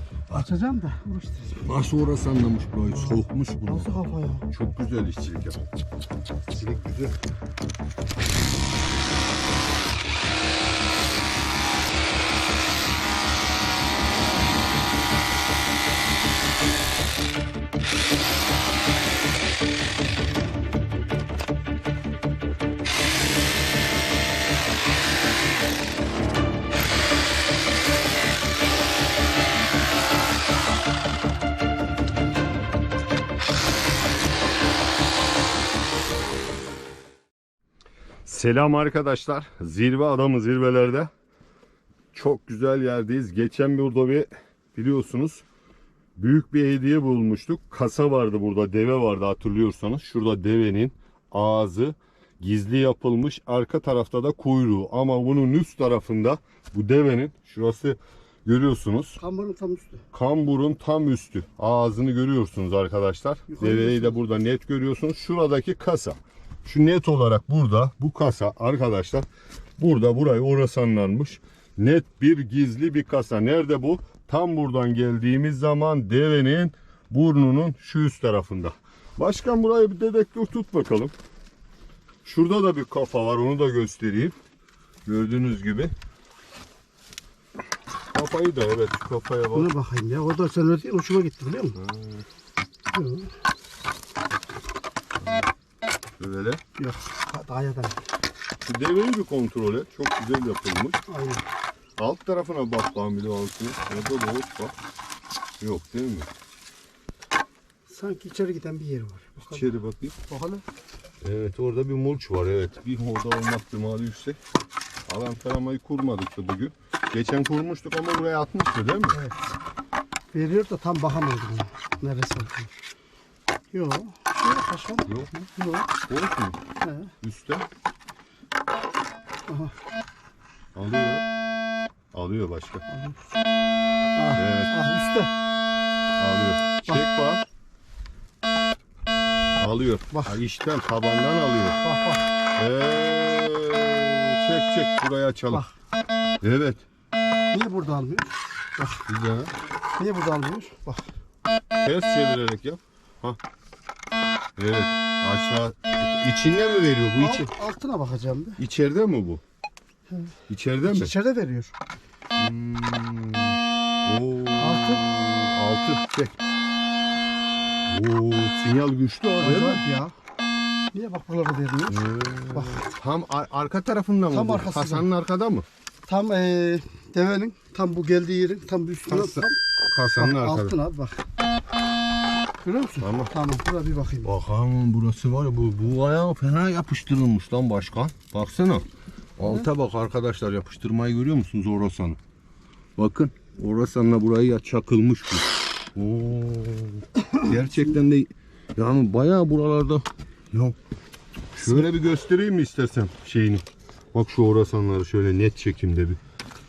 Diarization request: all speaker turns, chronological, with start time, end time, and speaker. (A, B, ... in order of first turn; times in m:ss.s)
0:00.3-0:01.7 A
0:01.6-0:05.6 B
0:02.9-0:04.5 A
0:06.5-0:07.2 B
0:38.2-0:41.1 B
0:42.1-0:45.4 B
0:46.2-0:59.2 B
0:59.2-1:00.0 A
1:00.1-1:09.3 B
1:03.5-1:04.2 A
1:09.8-1:21.1 B
1:22.2-1:24.4 B
1:25.0-1:25.9 B
1:28.1-1:29.7 B
1:29.5-1:31.8 A
1:31.8-1:32.3 B
1:32.9-1:33.3 A
1:36.2-1:36.6 B
1:36.8-1:38.0 A
1:38.6-1:41.0 B
1:41.1-1:41.4 A
1:42.0-1:44.8 B
1:45.6-1:46.3 B
1:47.9-1:49.7 A
1:49.5-1:50.2 B
1:50.3-1:50.6 A
1:51.2-1:54.4 B
1:55.1-1:59.2 B
1:59.1-1:59.4 A
2:00.3-2:02.7 A
2:03.7-2:05.9 A
2:05.1-2:05.5 B
2:06.1-2:06.6 B
2:06.8-2:07.1 A
2:07.2-2:07.7 B
2:09.5-2:09.8 A
2:10.8-2:11.2 B
2:12.1-2:12.8 B
2:12.9-2:13.2 A
2:14.2-2:15.3 A
2:14.4-2:14.7 B
2:16.2-2:17.5 B
2:19.6-2:21.8 B
2:21.8-2:22.3 A
2:22.6-2:25.7 B
2:26.4-2:26.8 B
2:27.5-2:29.0 A
2:29.1-2:29.5 B
2:30.0-2:31.1 A
2:31.8-2:33.4 B
2:34.6-2:37.5 B
2:37.2-2:38.6 A
2:38.6-2:39.4 B
2:40.1-2:41.7 A
2:40.5-2:41.1 B
2:42.4-2:46.5 B
2:44.6-2:45.0 A
2:47.9-2:49.8 B
2:49.4-2:50.2 A
2:50.9-2:52.0 A
2:51.9-2:55.7 B
2:52.5-2:52.9 A
2:54.3-2:55.1 A
2:56.1-2:59.6 A
2:59.1-3:00.8 B
3:00.2-3:01.2 A
3:02.6-3:04.3 A
3:03.0-3:03.3 B
3:04.2-3:12.2 B
3:13.0-3:20.8 B
3:21.6-3:26.2 B